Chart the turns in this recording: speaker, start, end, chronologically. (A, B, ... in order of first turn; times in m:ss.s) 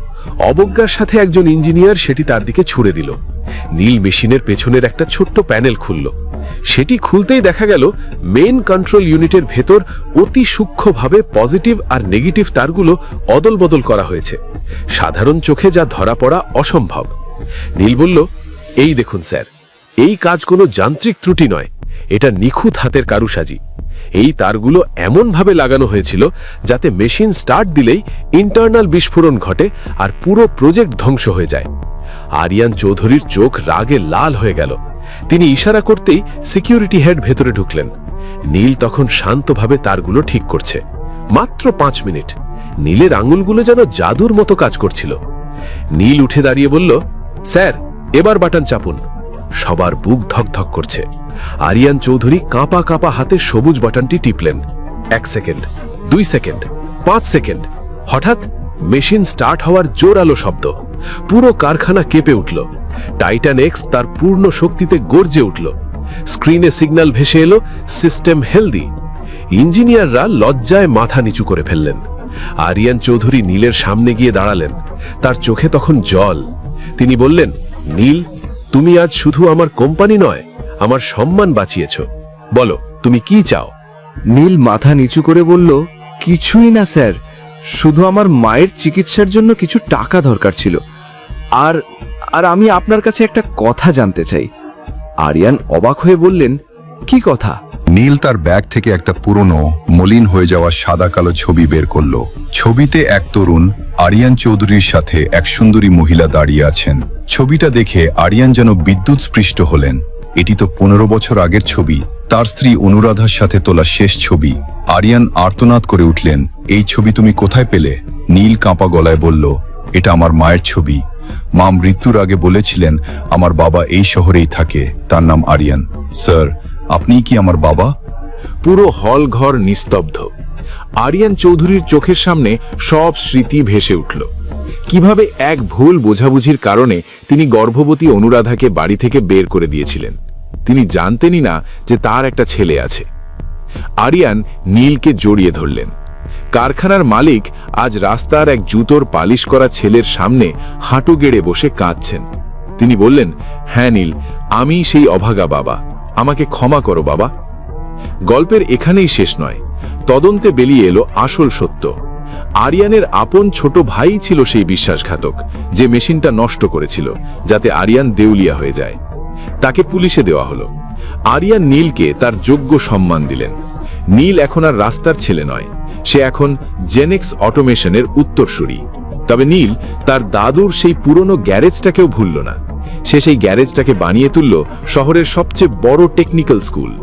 0:00.4-0:03.2 A
0:03.7-0:06.1 A
0:06.7-0:14.4 A
0:14.9-0:17.1 A
0:17.8-0:18.2 A
0:18.8-0:19.5 A
0:20.0-0:23.6 A
0:24.2-0:31.7 A
0:32.4-0:37.9 A
0:38.5-0:40.8 A
0:41.3-0:45.2 A
0:46.0-0:49.0 A
0:49.6-0:51.0 A
0:51.6-1:00.7 A
1:01.3-1:02.7 A
1:03.2-1:05.8 A
1:06.3-1:08.9 A
1:09.5-1:12.0 A
1:12.6-1:16.5 A
1:17.0-1:23.7 A
1:24.3-1:27.2 B
1:27.7-1:30.8 B
1:32.4-1:34.5 B
1:35.2-1:36.5 B
1:37.1-1:37.6 B
1:37.9-2:01.0 C
2:01.6-2:07.9 C
2:08.7-2:09.9 A
2:09.4-2:10.2 D
2:11.1-2:12.1 A
2:11.3-2:14.2 D
2:13.2-2:14.0 A
2:15.6-2:19.3 D
2:16.2-2:16.5 A
2:19.3-2:20.1 A
2:20.7-2:21.5 D
2:22.0-2:23.0 A
2:22.3-2:22.7 D
2:24.0-2:24.3 D
2:25.1-2:25.8 A
2:26.6-2:32.2 D
2:28.2-2:28.8 A
2:32.8-2:34.1 D
2:34.6-2:35.7 D
2:35.1-2:35.5 A
2:36.2-2:37.2 D
2:38.4-2:39.5 D
2:38.4-2:39.4 A
2:40.1-2:41.4 D
2:41.3-2:41.8 A
2:42.6-2:44.9 D
2:43.2-2:45.3 A
2:45.8-2:47.0 D
2:46.5-2:47.0 A
2:47.5-2:48.9 D
2:49.6-2:50.6 D
2:51.4-2:53.0 A
2:51.6-2:53.5 D
2:54.2-2:55.6 D
2:54.6-2:55.5 A
2:57.0-2:58.2 D
2:58.2-2:58.7 A
2:59.3-3:02.5 D
3:00.2-3:00.7 A
3:01.8-3:02.2 A
3:03.1-3:04.5 D
3:05.0-3:06.9 D
3:05.1-3:05.9 A